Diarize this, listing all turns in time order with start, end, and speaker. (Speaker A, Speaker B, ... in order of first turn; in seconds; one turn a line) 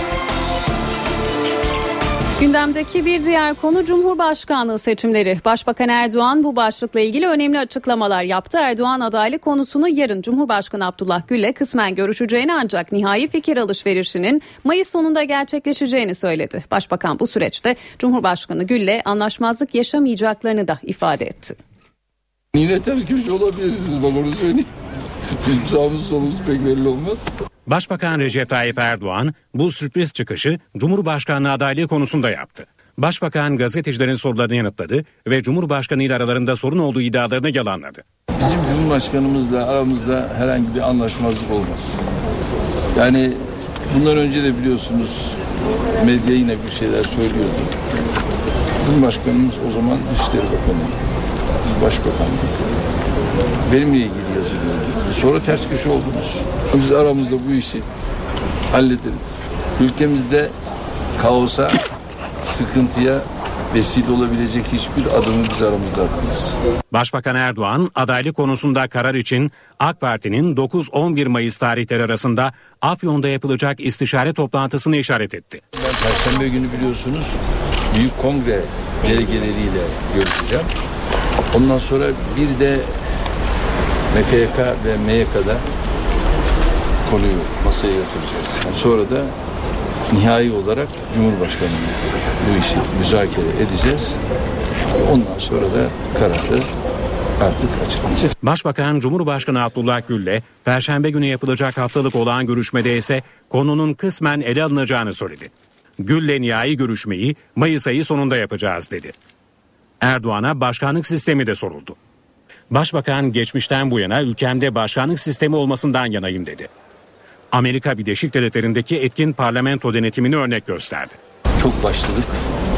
Speaker A: 2.4-21.6
Speaker B: 22.5-24.7
Speaker B: 25.3-27.3
Speaker C: 27.7-38.0
Speaker B: 38.3-42.0
Speaker B: 42.9-47.7
Speaker B: 48.8-51.0
Speaker B: 51.6-52.7
Speaker B: 53.6-57.9
Speaker B: 58.7-60.5
Speaker B: 61.1-61.8
Speaker B: 62.4-66.5
Speaker C: 66.9-75.6
Speaker B: 75.8-77.4
Speaker B: 77.9-80.7
Speaker B: 81.5-83.1
Speaker B: 84.1-85.6
Speaker B: 87.0-89.3
Speaker B: 90.1-94.2
Speaker B: 95.0-96.7
Speaker B: 97.4-98.3
Speaker C: 98.4-109.1
Speaker C: 110.0-111.9
Speaker C: 112.7-116.7
Speaker C: 117.5-121.2
Speaker B: 121.6-122.4